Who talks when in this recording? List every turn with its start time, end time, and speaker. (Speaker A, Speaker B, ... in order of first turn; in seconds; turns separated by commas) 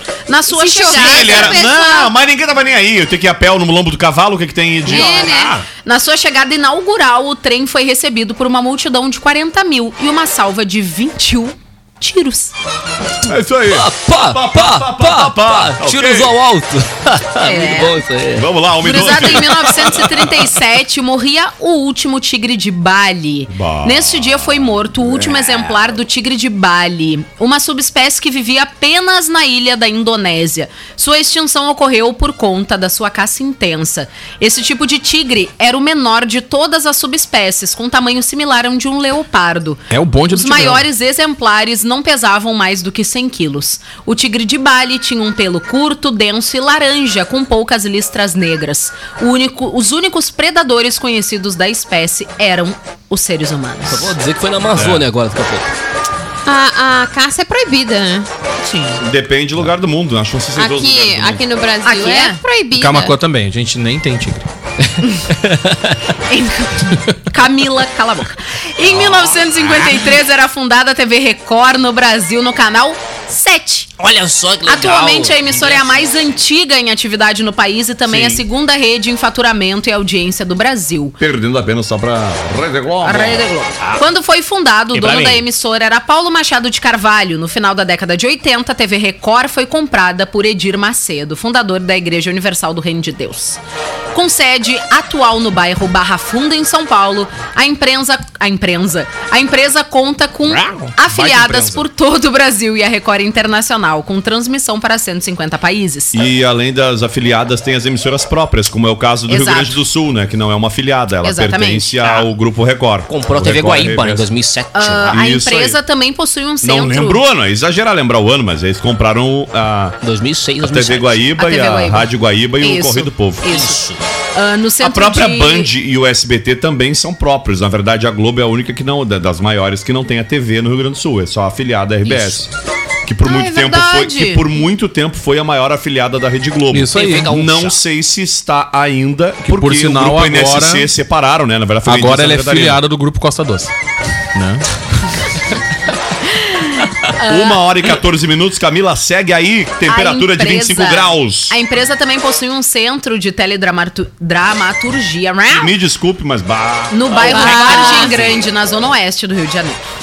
Speaker A: 0.3-1.7, Speaker B: 0.5-2.1, Speaker C: 0.9-5.7, Speaker B: 4.8-5.6, Speaker A: 4.8-12.5, Speaker C: 13.2-16.3, Speaker D: 13.7-18.5, Speaker A: 17.4-18.0, Speaker C: 18.3-20.2, Speaker A: 18.8-54.1, Speaker C: 23.5-25.5, Speaker E: 39.9-40.9, Speaker D: 53.9-55.7, Speaker C: 54.8-55.0, Speaker B: 56.5-58.3, Speaker A: 58.6-59.0, Speaker C: 59.0-61.4, Speaker B: 60.5-63.1, Speaker A: 61.8-62.4, Speaker E: 62.8-64.5, Speaker D: 65.4-65.9, Speaker A: 66.3-73.9, Speaker D: 68.9-70.0, Speaker D: 74.0-76.3, Speaker A: 74.7-81.2, Speaker C: 78.0-78.4, Speaker C: 81.2-83.4, Speaker A: 83.0-93.6, Speaker D: 84.9-85.4, Speaker A: 94.1-106.2, Speaker D: 100.5-100.9, Speaker E: 101.0-101.8, Speaker C: 106.1-114.2, Speaker A: 109.3-109.8, Speaker A: 111.2-112.0, Speaker D: 113.1-115.2, Speaker A: 114.7-117.2, Speaker C: 115.1-115.8, Speaker C: 116.6-120.0, Speaker D: 120.0-121.2, Speaker C: 120.6-123.5, Speaker A: 121.4-123.8, Speaker D: 123.5-124.0, Speaker A: 124.3-125.7, Speaker C: 124.8-132.5, Speaker D: 132.0-132.4, Speaker C: 133.0-142.8, Speaker A: 133.2-134.5, Speaker E: 136.7-137.3, Speaker D: 136.9-137.8, Speaker E: 139.5-140.9, Speaker E: 141.8-143.7, Speaker E: 144.3-144.6, Speaker A: 146.3-147.6, Speaker C: 147.2-151.6, Speaker A: 149.8-155.7, Speaker C: 155.5-158.5, Speaker A: 156.9-159.8, Speaker B: 157.2-158.1